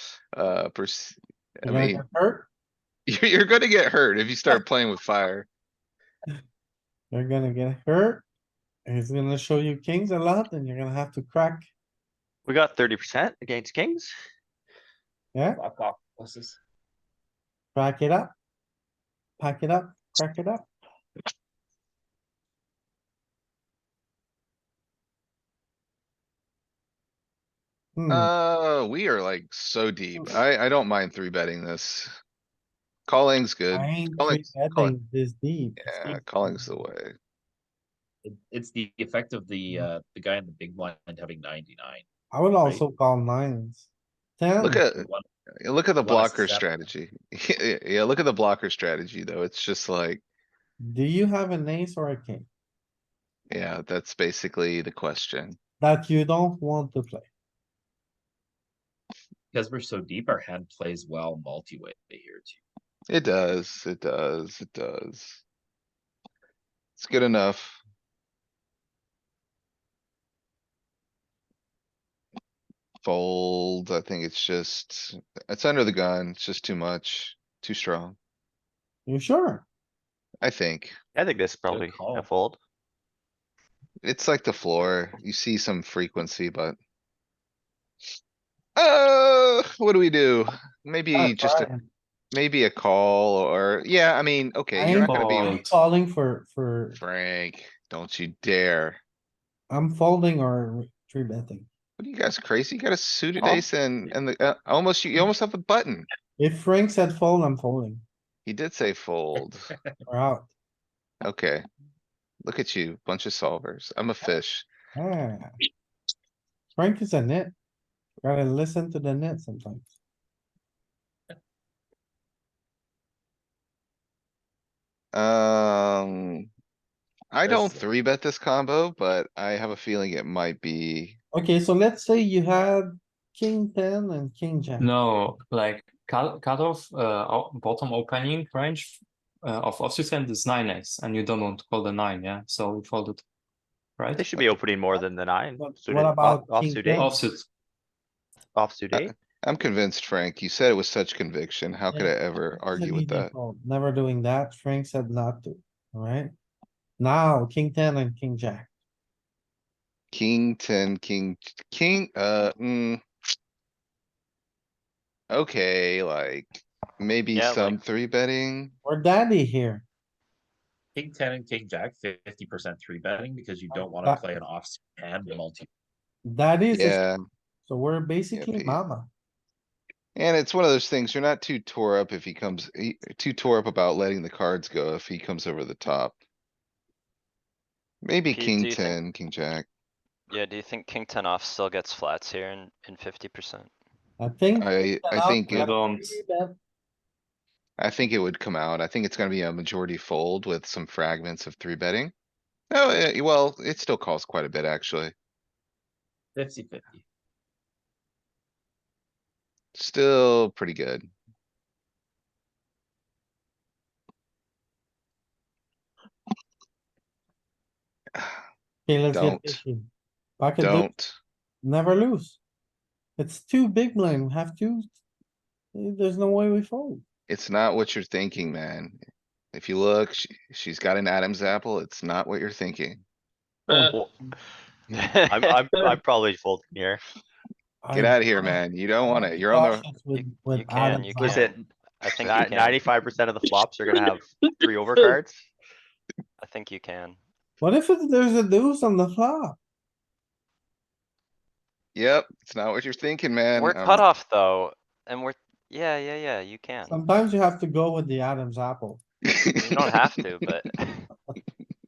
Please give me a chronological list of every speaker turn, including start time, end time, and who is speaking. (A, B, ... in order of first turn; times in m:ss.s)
0:00.3-0:02.0 A
0:01.6-0:02.5 B
0:03.1-0:05.5 A
0:07.1-0:08.2 B
0:08.8-0:11.7 B
0:12.4-0:14.1 C
0:15.4-0:15.6 B
0:15.5-0:16.6 D
0:17.8-0:18.3 B
0:19.4-0:20.7 B
0:28.0-0:28.3 B
0:28.1-0:32.1 A
0:33.1-0:35.0 A
0:33.7-0:36.7 B
0:35.8-0:37.1 A
0:38.2-0:42.0 D
0:42.3-0:43.9 B
0:44.4-0:44.9 B
0:44.6-0:45.1 A
0:44.9-0:45.2 D
0:45.6-0:50.2 A
0:46.0-0:46.9 D
0:50.8-0:52.5 B
0:53.5-0:55.6 A
0:55.8-0:57.3 B
0:59.5-1:02.6 D
1:03.1-1:05.4 A
1:07.0-1:07.8 A
1:13.0-1:18.2 A
1:19.1-1:19.6 B
1:20.4-1:20.9 A
1:21.1-1:22.6 C
1:21.6-1:22.3 D
1:24.0-1:26.8 A
1:28.8-1:31.7 A
1:31.1-1:31.9 B
1:32.3-1:35.7 A
1:34.7-1:37.0 B
1:34.9-1:35.7 E
1:36.9-1:39.0 A
1:39.7-1:41.7 B
1:42.0-1:46.1 A
1:43.4-1:44.1 D
1:46.4-1:48.0 B
1:48.4-1:49.7 A
1:49.4-1:50.0 D
1:50.1-1:50.5 B
1:51.2-1:51.6 A
1:52.4-1:54.7 A
1:55.0-1:55.6 B
1:56.8-1:57.5 B
1:58.2-1:59.9 B
2:05.1-2:06.5 A
2:07.3-2:11.2 A
2:07.4-2:07.8 D
2:11.3-2:14.9 B
2:14.8-2:23.2 E
2:24.0-2:24.6 E
2:24.2-2:27.1 C
2:25.6-2:27.2 B
2:27.0-2:27.5 E
2:28.5-2:29.1 C
2:28.9-2:33.3 A
2:32.7-2:36.3 B
2:37.0-2:38.7 B
2:40.1-2:43.0 A
2:45.3-2:48.7 A
2:47.3-2:47.8 F
2:48.8-2:49.8 B
2:50.9-2:55.7 D
2:53.7-2:54.3 B
2:56.2-2:57.0 B
2:56.7-2:57.2 A
2:57.7-2:59.1 B
2:58.3-2:58.8 A
3:00.2-3:06.2 A
3:08.0-3:09.7 A
3:08.3-3:09.0 F
3:10.3-3:13.7 F
3:14.2-3:16.6 B
3:14.6-3:15.8 A
3:15.5-3:16.2 E
3:17.8-3:22.1 A
3:22.7-3:25.1 A
3:26.4-3:27.0 D
3:29.8-3:31.1 A
3:38.2-3:38.4 A
3:38.9-3:40.9 B
3:39.1-3:39.6 A
3:40.6-3:41.2 A
3:41.6-3:42.4 B
3:43.2-3:44.9 B
3:45.7-3:47.0 B
3:47.3-3:49.0 A
3:49.5-3:53.0 A
3:53.7-3:54.0 E
3:53.7-3:54.3 B
3:54.9-3:55.5 F
3:55.3-3:57.0 C
3:57.8-4:01.5 B
3:57.9-3:59.8 A
4:00.1-4:02.8 F
4:01.2-4:01.6 C
4:02.2-4:05.5 C
4:06.4-4:07.2 F
4:07.6-4:09.6 B
4:11.9-4:14.1 A
4:13.5-4:17.0 F
4:16.9-4:19.0 B
4:19.3-4:19.6 A
4:19.6-4:21.1 F